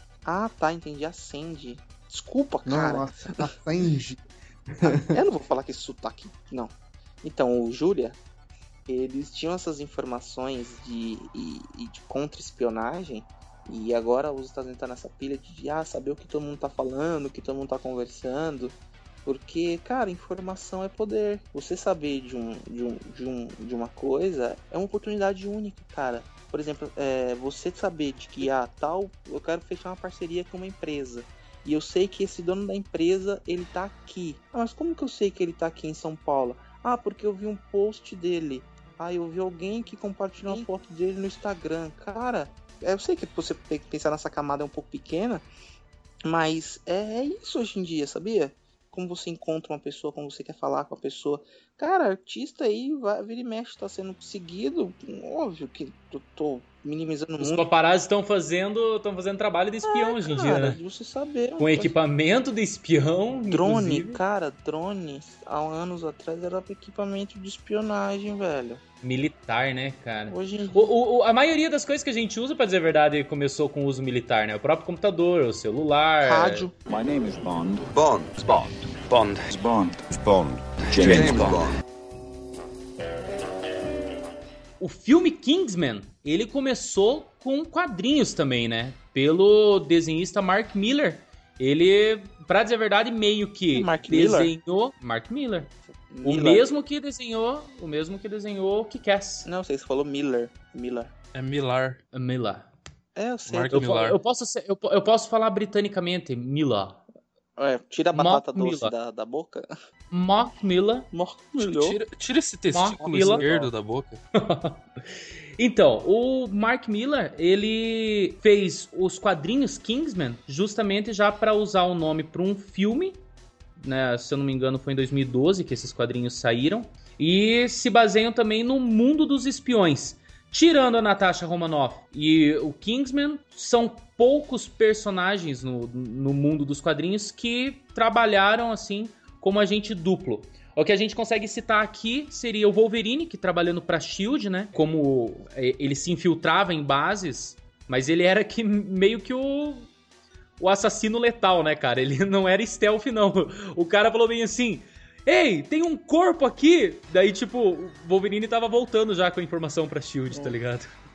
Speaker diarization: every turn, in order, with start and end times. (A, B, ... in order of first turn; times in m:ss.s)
0:00.2-0:03.2 A
0:02.6-0:04.2 B
0:04.8-0:05.2 B
0:04.8-0:06.7 A
0:07.2-0:08.2 A
0:08.9-0:45.4 A
0:46.2-0:57.6 A
0:57.4-1:00.8 C
0:59.9-1:01.9 A
1:01.6-1:04.2 C
1:03.5-1:08.8 A
1:09.0-1:16.7 C
1:10.3-1:10.9 A
1:16.2-1:16.7 A
1:16.9-1:17.9 D
1:17.9-1:19.5 E
1:19.5-1:21.7 D
1:20.9-1:21.7 E
1:24.8-1:35.7 C
1:33.7-1:34.5 A
1:36.1-1:36.7 A
1:36.2-1:39.5 C
1:39.4-1:41.1 A
1:41.3-1:42.0 F
1:42.1-1:42.7 C
1:43.2-1:43.9 A
1:43.4-1:44.2 F
1:43.7-1:47.0 C
1:47.6-1:49.7 A
1:48.1-1:48.9 C
1:50.1-1:51.1 C
1:51.1-1:52.0 A
1:51.6-1:54.2 F
1:52.7-1:53.4 C
1:53.2-1:53.7 A
1:54.3-1:54.8 C
1:55.6-2:03.2 C
2:03.8-2:29.9 C
2:30.6-2:40.9 C